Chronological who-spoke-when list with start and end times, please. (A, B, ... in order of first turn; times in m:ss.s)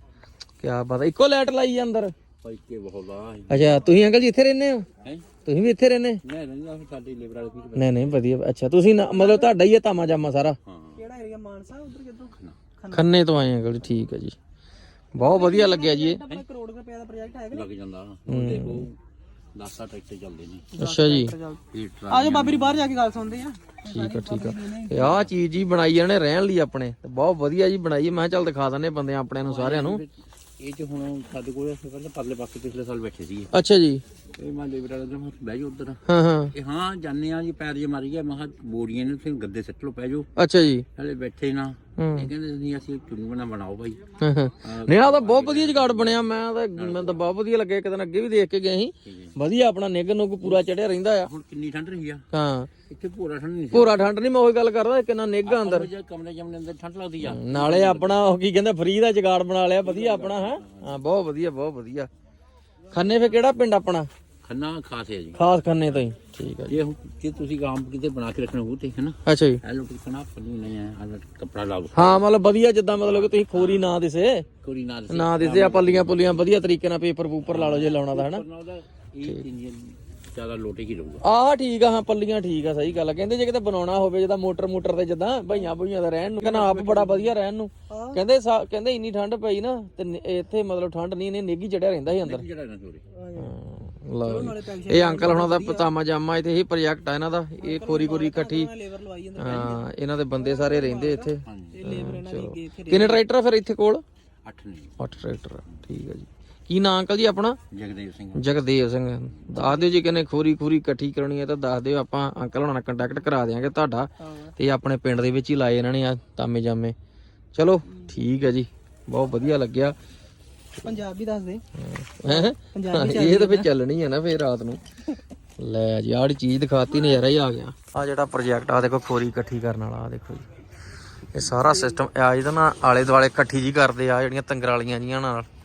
0:00.6-0:02.1 A
0:02.4-0:03.8 B
0:03.5-0:04.9 A
0:05.0-0:05.3 B
0:05.4-0:06.2 A
0:06.2-0:08.3 B
0:07.8-0:10.6 A
0:09.1-0:09.6 C
0:10.7-0:11.0 B
0:11.0-0:13.1 C
0:12.3-0:12.6 B
0:12.9-0:14.4 A
0:15.1-0:16.2 A
0:15.2-0:17.7 C
0:17.5-0:19.0 B
0:18.3-0:18.9 A
0:19.6-0:20.8 B
0:20.8-0:21.4 A
0:20.8-0:25.0 C
0:21.7-0:23.5 B
0:23.8-0:30.0 A
0:25.0-0:25.3 B
0:29.4-0:33.5 B
0:33.5-0:34.0 A
0:34.4-0:36.0 B
0:36.1-0:36.5 A
0:36.5-0:40.3 B
0:40.4-0:40.9 A
0:41.0-0:44.0 B
0:42.0-0:42.3 A
0:44.2-0:51.3 A
0:44.6-0:47.3 B
0:49.0-0:49.4 B
0:51.2-0:52.3 B
0:52.3-0:52.7 A
0:52.9-0:54.1 B
0:53.7-0:55.9 A
0:55.4-0:58.2 B
0:57.2-1:02.1 A
0:59.8-1:01.0 B
1:02.9-1:04.1 A
1:04.4-1:06.0 B
1:05.4-1:06.8 A
1:06.7-1:12.3 B
1:09.2-1:09.6 A
1:11.9-1:14.4 A
1:13.0-1:13.9 B
1:14.6-1:16.5 B
1:15.1-1:18.4 A
1:17.5-1:21.2 B
1:21.2-1:32.5 A
1:26.4-1:27.3 B
1:27.9-1:28.2 C
1:32.2-1:33.1 B
1:33.2-1:33.5 C
1:33.4-1:38.7 A
1:34.2-1:35.9 C
1:37.6-1:43.2 C
1:39.4-1:44.0 A
1:41.4-1:41.9 B
1:44.4-1:45.0 B
1:45.0-1:47.6 A
1:47.7-1:48.5 B
1:48.4-1:57.0 A
1:57.5-2:00.0 A
2:00.8-2:01.6 C
2:01.8-2:04.8 A
2:02.2-2:03.7 C
2:05.6-2:10.5 A
2:11.3-2:15.5 A